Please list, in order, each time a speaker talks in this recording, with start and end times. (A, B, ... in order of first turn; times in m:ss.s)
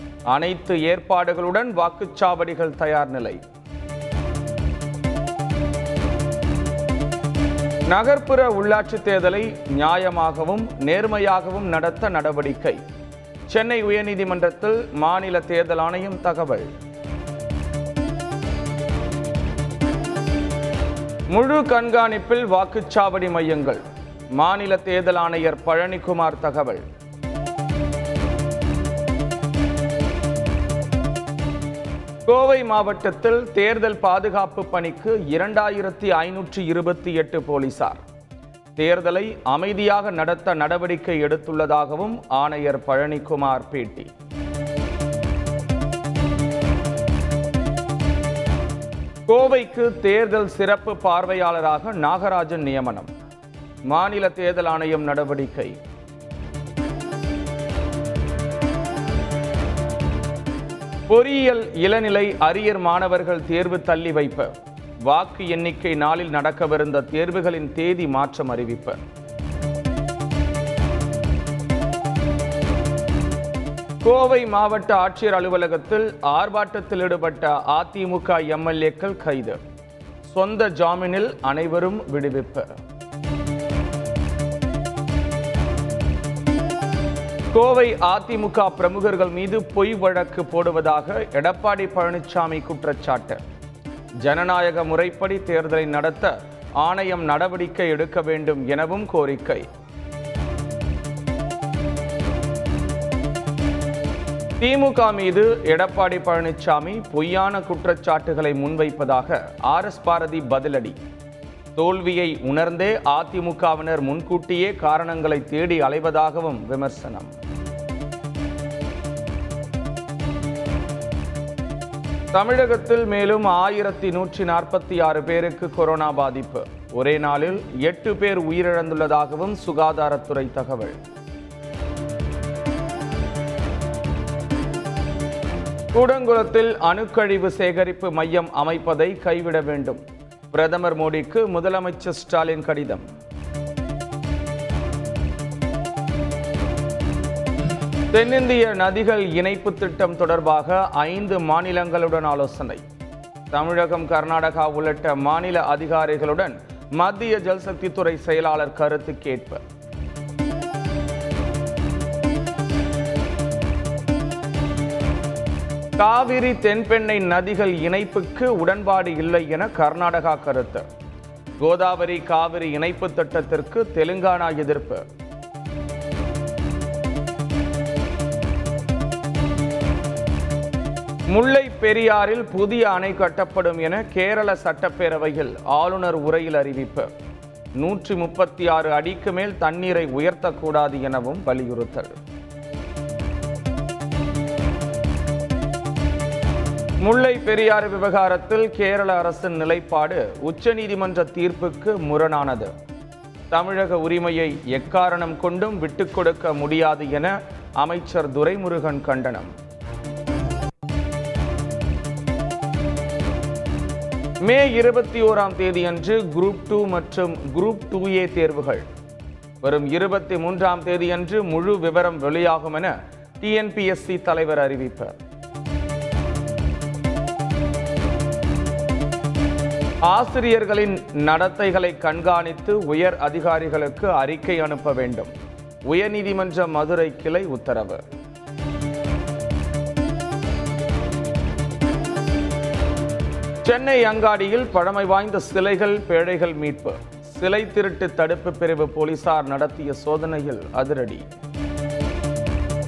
0:00.3-0:03.4 A
0:07.9-0:12.8 A
0:13.5-0:16.7 A
0:21.3-0:23.8 A
0:24.4-0:26.8 A
0:32.3-0:38.0 A
0:38.8-0:44.1 A
0:49.3-0:53.1 A
0:53.9-0:55.8 A
1:01.1-1:04.5 A
1:05.0-1:09.0 A
1:14.0-1:19.6 A
1:20.3-1:22.7 A
1:27.5-1:33.4 A
1:34.2-1:39.7 A
1:44.6-1:51.0 A
1:51.8-1:57.3 A
2:02.3-2:11.0 A
2:15.9-2:23.0 A
2:28.1-2:32.8 A
2:33.5-2:39.6 A
2:46.0-2:50.8 A
2:51.6-2:55.0 A
3:01.3-3:07.1 A
3:07.8-3:12.2 A
3:17.0-3:22.7 A
3:23.5-3:29.5 A
3:34.4-3:38.9 A
3:39.6-3:45.2 A
3:50.0-3:55.3 A
3:55.9-3:58.0 A
4:03.6-4:11.3 A